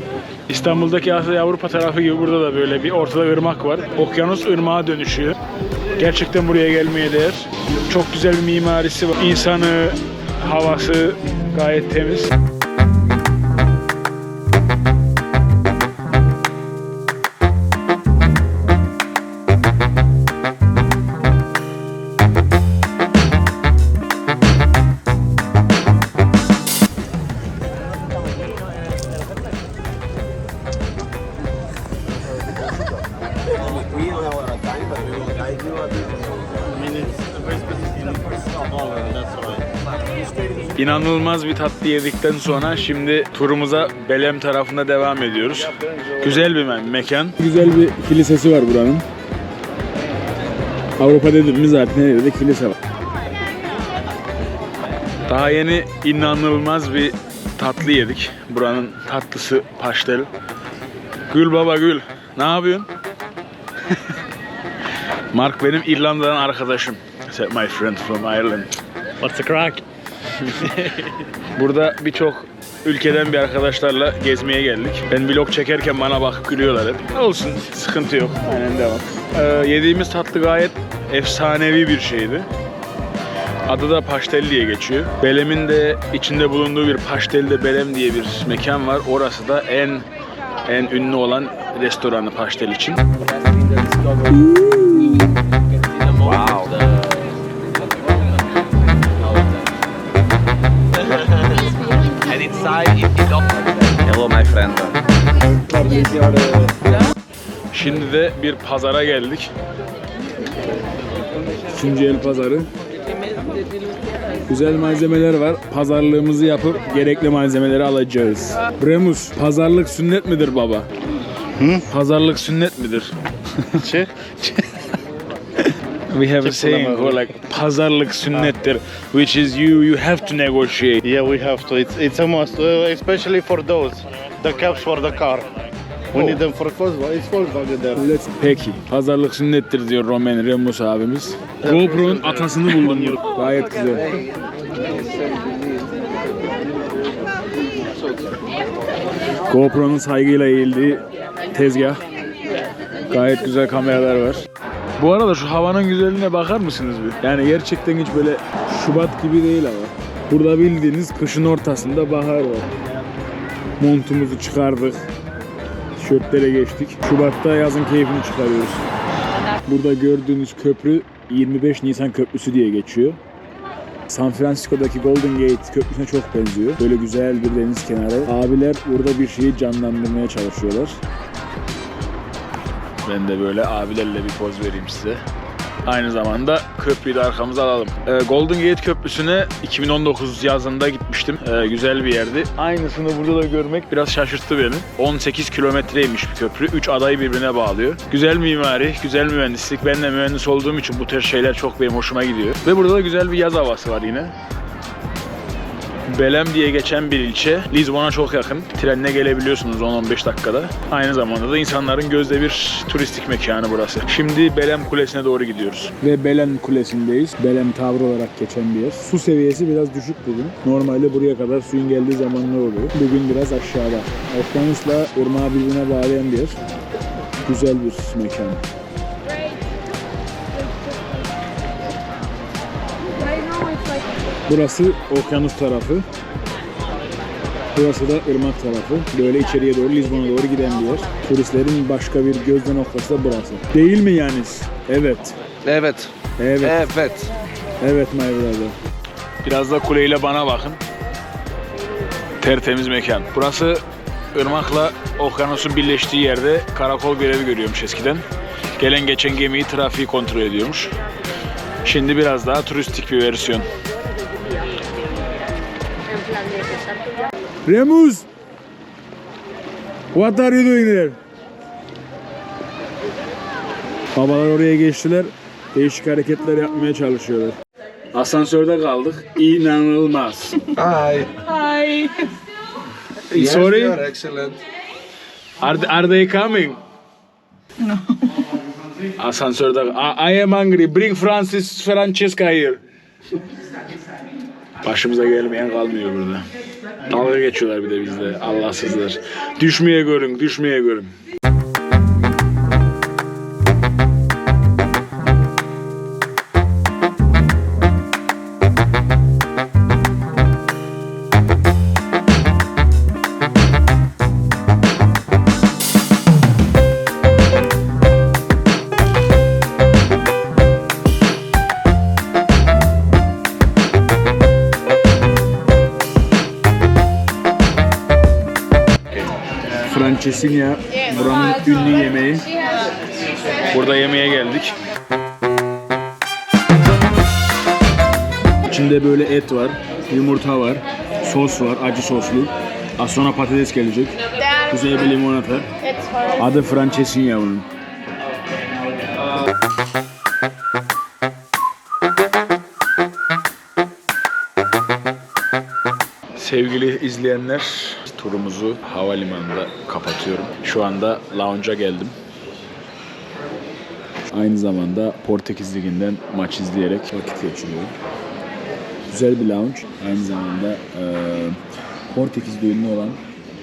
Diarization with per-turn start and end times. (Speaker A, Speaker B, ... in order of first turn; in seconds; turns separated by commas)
Speaker A: 0.5-5.4, Speaker A: 6.0-12.3, Speaker B: 34.9-36.1, Speaker C: 36.7-39.7, Speaker A: 40.8-49.0, Speaker A: 51.0-52.8, Speaker A: 55.3-60.3, Speaker A: 61.3-62.9, Speaker A: 65.3-68.7, Speaker A: 69.2-69.8, Speaker A: 70.4-70.9, Speaker A: 71.5-82.5, Speaker A: 83.7-90.1, Speaker A: 90.7-93.0, Speaker A: 94.5-95.4, Speaker B: 96.1-97.2, Speaker B: 102.1-105.0, Speaker B: 105.7-106.7, Speaker A: 107.7-109.5, Speaker A: 111.7-112.7, Speaker A: 114.5-120.9, Speaker C: 121.6-121.8, Speaker A: 121.9-123.1, Speaker C: 123.8-124.3, Speaker A: 124.4-124.7, Speaker A: 126.1-131.0, Speaker C: 126.4-127.3, Speaker C: 131.1-135.5, Speaker C: 136.1-138.0, Speaker A: 136.2-136.4, Speaker A: 137.9-144.1, Speaker C: 141.7-142.7, Speaker B: 145.1-145.7, Speaker A: 149.5-152.0, Speaker A: 153.1-154.4, Speaker A: 155.0-162.7, Speaker A: 163.8-165.1, Speaker A: 166.0-168.9, Speaker A: 169.7-173.2, Speaker A: 174.1-181.0, Speaker A: 183.0-185.2, Speaker A: 185.8-204.3, Speaker A: 206.1-226.6, Speaker A: 227.4-228.6, Speaker A: 234.5-236.1, Speaker A: 237.8-245.4, Speaker B: 245.7-246.1, Speaker A: 246.4-247.0, Speaker B: 246.6-247.3, Speaker A: 247.8-248.8, Speaker A: 249.4-250.8, Speaker A: 252.4-253.8, Speaker A: 254.3-258.2, Speaker A: 258.7-260.9, Speaker A: 261.8-263.7, Speaker A: 267.7-268.3, Speaker A: 270.1-271.2, Speaker A: 274.1-277.6, Speaker A: 278.1-280.7, Speaker B: 280.8-281.9, Speaker A: 283.3-284.1, Speaker B: 283.3-284.6, Speaker A: 285.6-286.8, Speaker A: 289.2-292.8, Speaker A: 294.8-296.5, Speaker A: 297.1-301.1, Speaker A: 329.8-332.5, Speaker A: 333.7-334.8, Speaker A: 338.7-345.7, Speaker A: 346.3-347.7, Speaker A: 356.4-362.2, Speaker A: 364.3-367.9, Speaker A: 369.1-371.6, Speaker A: 372.1-373.2